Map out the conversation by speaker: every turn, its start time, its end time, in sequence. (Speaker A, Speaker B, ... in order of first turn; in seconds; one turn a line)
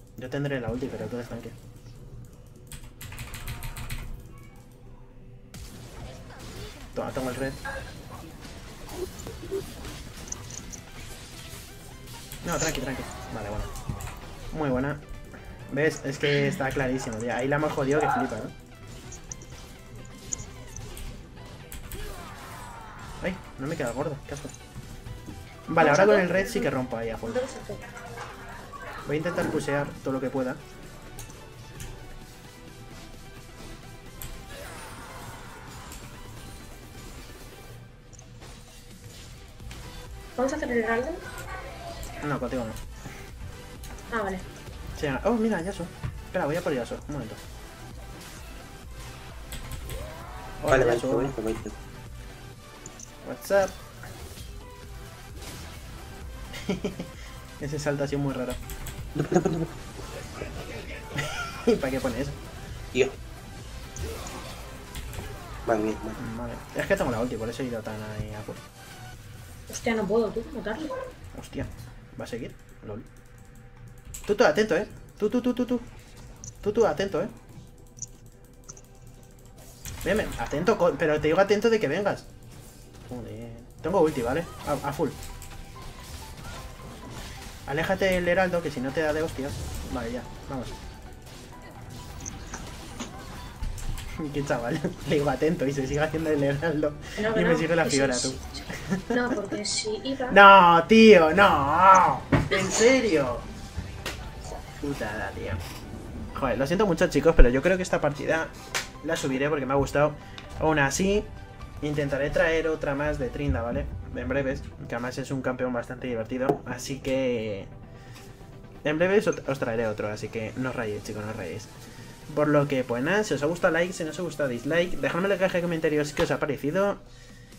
Speaker A: 0.2-1.6
Speaker A: 7.0-7.6
Speaker A: 12.4-13.7
Speaker A: 14.5-15.0
Speaker A: 15.7-18.5
Speaker A: 23.2-24.5
Speaker A: 25.7-27.4
Speaker B: 25.8-27.9
Speaker A: 29.1-30.6
Speaker B: 40.4-41.2
Speaker A: 42.2-42.8
Speaker B: 44.1-44.5
Speaker A: 45.0-47.4
Speaker A: 50.6-51.4
Speaker C: 50.7-51.8
Speaker A: 53.2-53.8
Speaker A: 56.6-58.6
Speaker C: 59.1-59.8
Speaker A: 61.1-62.4
Speaker C: 65.7-66.2
Speaker A: 66.2-68.6
Speaker B: 69.7-70.9
Speaker A: 71.3-73.1
Speaker A: 74.3-75.9
Speaker A: 76.6-77.3
Speaker A: 80.0-82.3
Speaker A: 83.1-85.2
Speaker A: 87.7-90.8
Speaker A: 94.2-99.5
Speaker B: 97.2-100.4
Speaker A: 100.3-103.5
Speaker A: 104.8-105.6
Speaker A: 106.3-111.3
Speaker A: 111.8-117.7
Speaker A: 118.8-121.7
Speaker A: 122.3-127.0